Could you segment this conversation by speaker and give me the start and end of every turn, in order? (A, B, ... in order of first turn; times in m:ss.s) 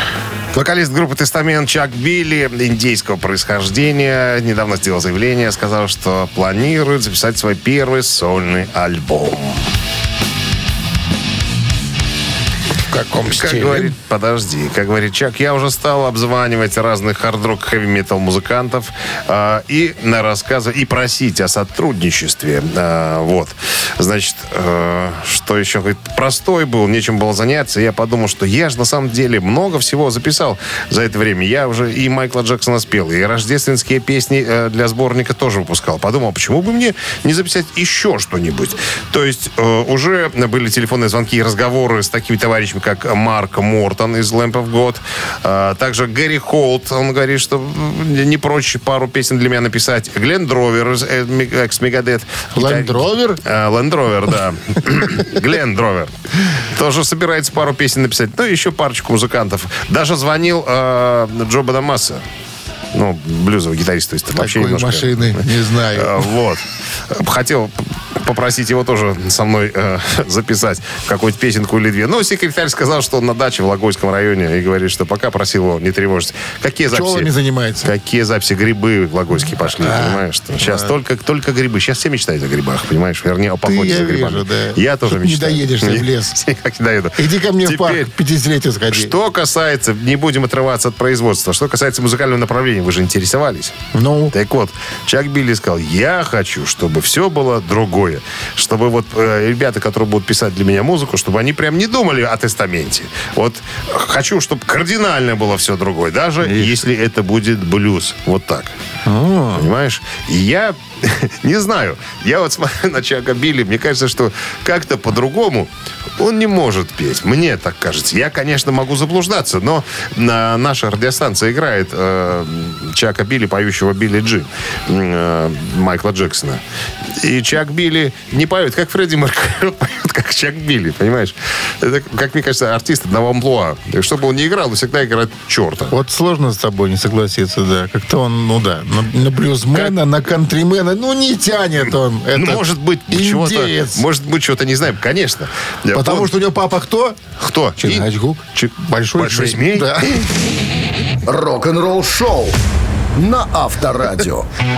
0:00.5-0:09.6 A
0:12.9-0:13.9 B
0:13.2-1:02.2 A
0:52.5-0:53.4 B
1:02.9-1:17.3 A
1:04.4-1:06.3 B
1:16.9-1:17.9 B
1:17.8-1:28.1 A
1:19.6-1:20.9 B
1:23.6-1:26.4 B
1:27.2-1:29.1 B
1:28.9-1:33.8 A
1:33.9-1:34.3 B
1:34.3-1:48.7 A
1:46.4-1:46.8 B
1:49.0-1:49.7 B
1:49.5-2:06.6 A
2:07.2-2:15.9 A
2:15.9-2:24.0 B
2:22.3-2:26.3 A
2:25.9-2:27.2 B
2:27.4-2:30.2 A
2:27.8-2:30.3 B
2:31.3-2:32.6 C
2:33.2-2:34.5 C